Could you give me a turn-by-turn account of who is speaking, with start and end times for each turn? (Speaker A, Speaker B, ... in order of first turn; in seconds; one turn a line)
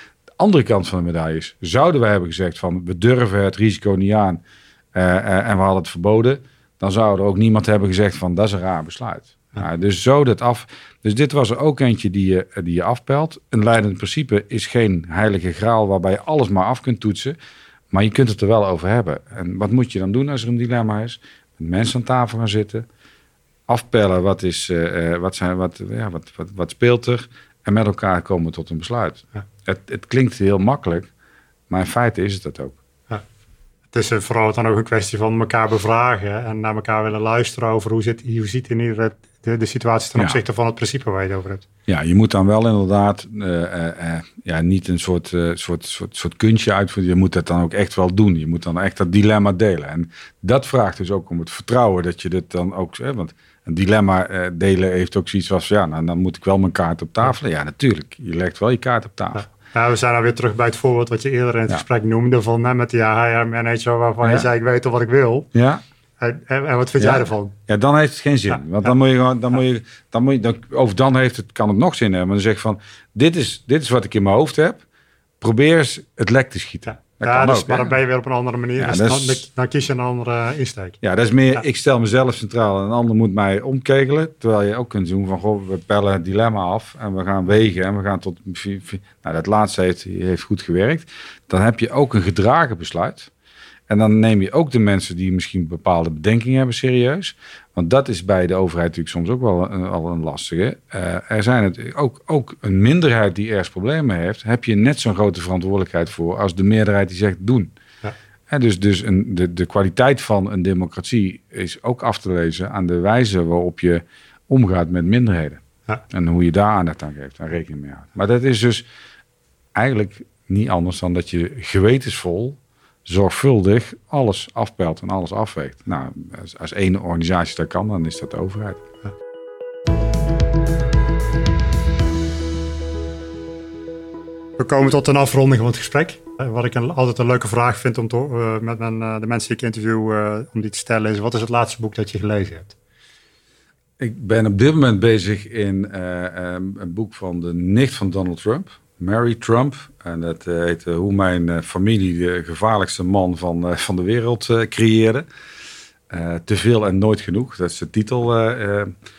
Speaker A: 0.4-4.4
Speaker A: 4.9-17.4
Speaker A: 17.9-22.9
Speaker A: 23.7-31.1
Speaker A: 31.7-32.8
Speaker B: 33.9-41.6
Speaker A: 41.9-59.5
Speaker B: 59.5-65.5
Speaker A: 64.2-64.5
Speaker A: 65.5-65.8
Speaker B: 66.2-67.5
Speaker A: 67.0-74.8
Speaker A: 75.4-78.0
Speaker B: 77.0-81.0
Speaker A: 78.8-79.4
Speaker A: 81.0-93.3
Speaker A: 93.9-107.7
Speaker A: 108.5-118.9
Speaker A: 119.7-128.8
Speaker B: 134.6-142.8
Speaker A: 144.0-155.3
Speaker A: 156.1-158.9